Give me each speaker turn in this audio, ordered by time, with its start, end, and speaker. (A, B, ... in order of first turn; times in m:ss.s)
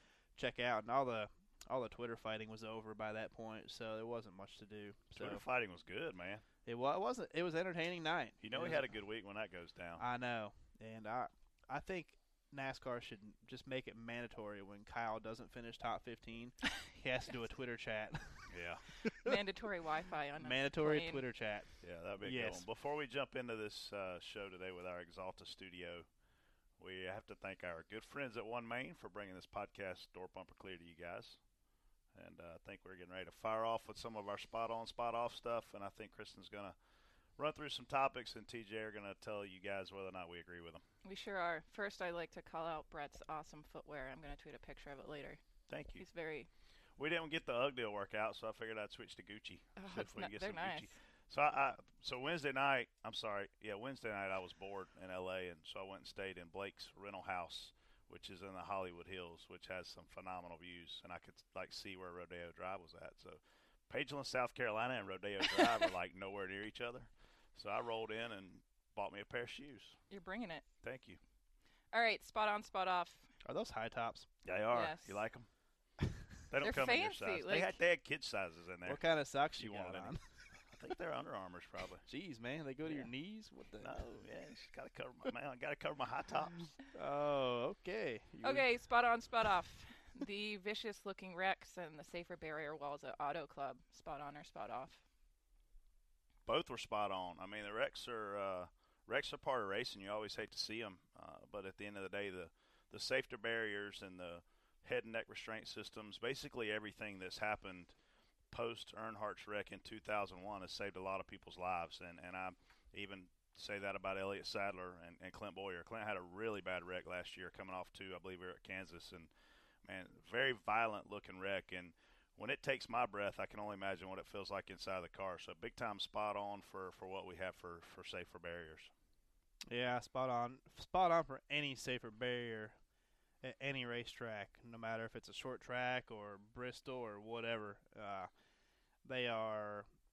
0:00.4-0:05.4 A
0:05.1-0:06.4 B
0:06.6-0:08.9 A
0:08.4-0:10.0 B
0:10.0-0:18.5 A
0:18.5-0:18.8 B
0:19.0-0:19.4 A
0:19.2-0:21.2 C
0:20.4-0:21.7 A
0:21.8-0:26.0 B
0:22.2-0:22.6 A
0:26.8-0:31.4 B
0:32.1-0:36.7 B
0:37.4-0:40.8 B
0:41.0-0:45.4 C
0:45.7-0:46.0 B
0:45.9-0:46.5 C
0:47.0-1:10.0 B
0:49.8-0:50.9 C
1:10.1-1:10.6 C
1:10.8-1:11.2 B
1:11.9-1:13.3 C
1:13.4-1:14.3 A
1:14.4-1:15.5 B
1:14.7-1:15.2 C
1:16.5-1:19.0 B
1:16.6-1:17.8 C
1:18.8-1:20.2 A
1:19.6-1:20.1 B
1:20.7-1:22.0 B
1:22.0-1:24.0 A
1:23.8-1:26.7 B
1:26.9-1:28.6 A
1:28.4-1:35.0 C
1:36.4-1:47.9 B
1:48.5-1:59.3 B
1:59.8-2:08.9 B
2:09.7-2:12.8 A
2:13.4-2:18.3 A
2:19.0-2:19.8 A